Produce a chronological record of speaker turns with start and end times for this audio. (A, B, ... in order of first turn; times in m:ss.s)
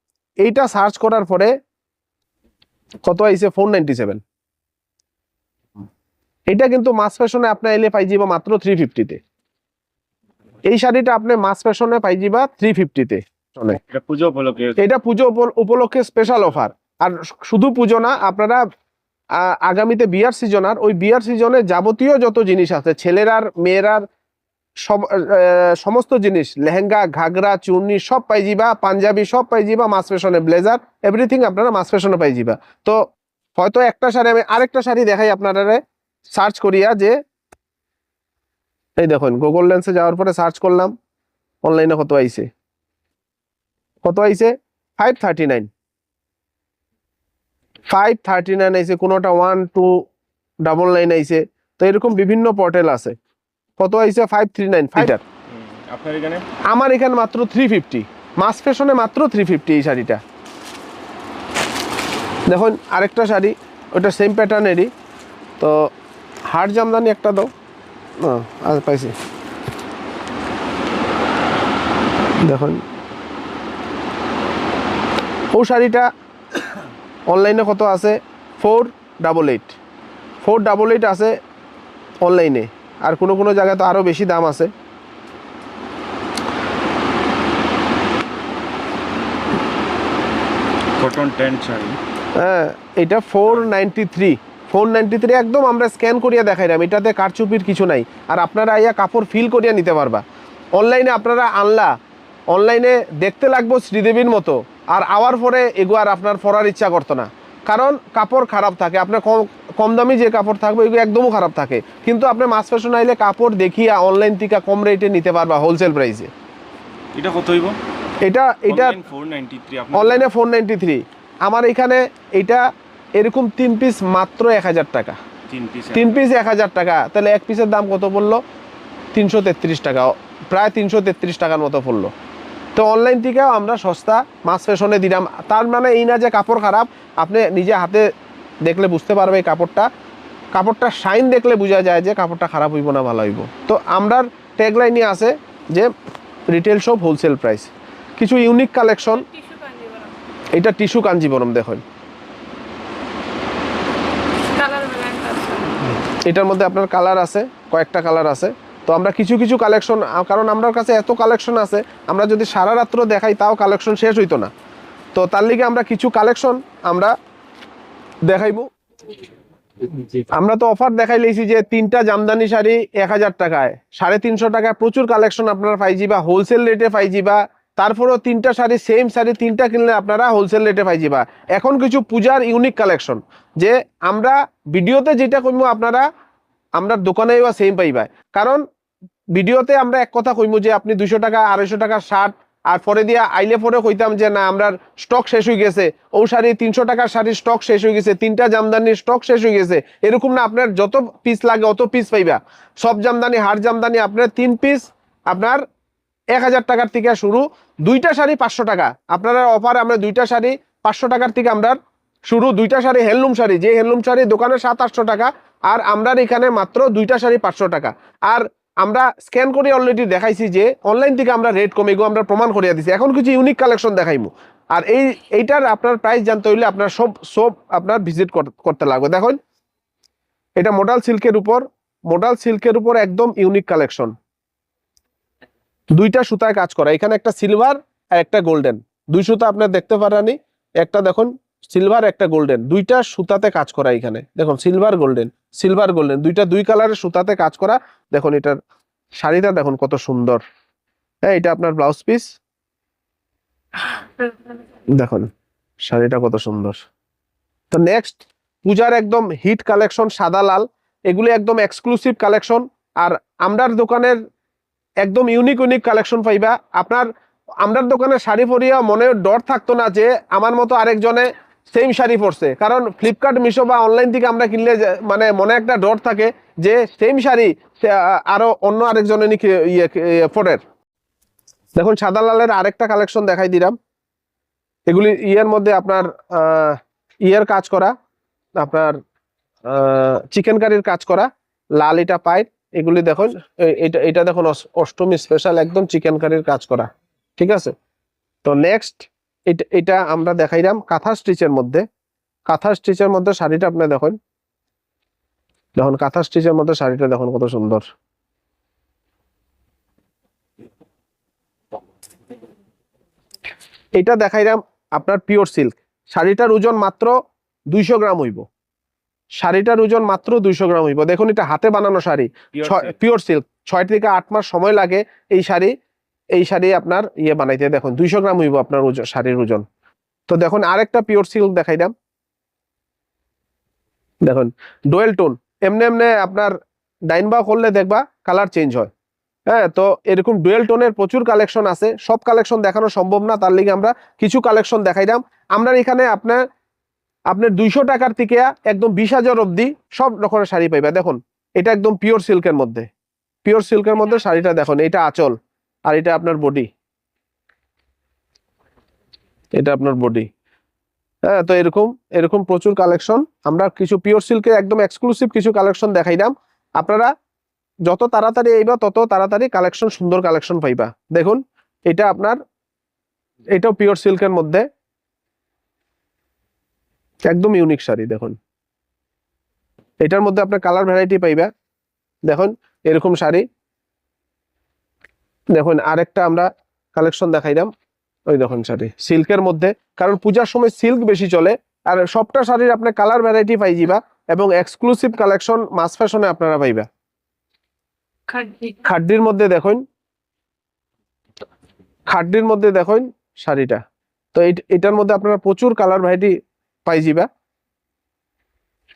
0:00.4-0:01.5 A
0:03.0-0:04.2 A
0:06.5-0:09.2 A
0:10.6-0:13.8 A
0:13.7-0:14.8 B
0:14.8-0:18.6 A
0:19.4-0:24.1 A
0:24.8-0:33.0 A
0:33.6-0:37.2 A
0:39.0-0:40.9 A
0:41.6-0:42.5 A
0:44.0-0:45.7 A
0:47.9-0:50.1 A
0:50.6-0:53.2 A
0:53.8-0:55.2 A
0:55.5-0:56.4 B
0:56.7-1:00.2 A
1:02.5-1:04.9 A
1:05.6-1:05.9 A
1:06.5-1:07.5 A
1:08.2-1:09.1 A
1:12.4-1:12.8 A
1:15.5-1:16.1 A
1:17.3-1:19.7 A
1:20.4-1:21.3 A
1:22.2-1:24.7 A
1:31.0-1:32.0 B
1:32.4-1:40.2 A
1:40.8-1:41.9 A
1:42.5-1:56.3 A
1:57.1-1:57.8 B
1:58.2-1:59.0 A
1:58.7-2:00.3 B
1:59.9-2:02.6 A
2:03.2-2:05.2 A
2:05.5-2:06.2 B
2:05.9-2:08.4 A
2:09.1-2:12.1 A
2:12.8-2:18.1 A
2:18.6-2:19.9 A
2:20.5-2:25.9 A
2:26.5-2:29.2 A
2:29.2-2:30.1 C
2:30.5-2:31.8 A
2:34.4-2:35.8 C
2:36.2-2:44.5 A
2:45.2-2:47.2 A
2:48.2-2:48.7 A
2:50.3-3:06.1 A
3:06.8-3:08.6 A
3:09.3-3:25.6 A
3:26.3-3:49.4 A
3:50.6-3:54.2 A
3:55.9-4:08.6 A
4:09.2-4:10.4 A
4:11.2-4:12.4 A
4:14.9-4:15.3 A
4:15.8-4:16.8 A
4:17.7-4:24.2 A
4:25.0-4:27.1 A
4:27.6-4:40.6 A
4:41.8-4:43.8 A
4:44.9-4:47.9 A
4:48.6-4:49.0 A
4:49.7-4:57.7 A
4:58.4-5:01.8 A
5:02.5-5:04.2 A
5:05.8-5:07.8 A
5:13.9-5:17.1 A
5:17.7-5:18.4 A
5:19.4-5:25.7 A
5:22.6-5:22.8 B
5:26.3-5:29.6 A
5:30.3-5:31.9 A
5:34.2-5:36.6 A
5:37.1-5:38.9 A
5:39.5-5:46.4 A
5:47.3-5:52.9 A
5:53.4-5:56.7 A
5:59.6-6:00.3 A
6:01.2-6:07.1 A
6:07.8-6:12.4 A
6:13.5-6:14.7 A
6:17.3-6:18.3 A
6:20.0-6:21.5 A
6:22.2-6:23.4 A
6:25.5-6:27.7 A
6:28.3-6:36.9 A
6:38.3-6:38.8 C
6:38.8-6:39.8 A
6:42.1-6:43.8 A
6:44.3-6:46.3 A
6:46.8-6:47.3 A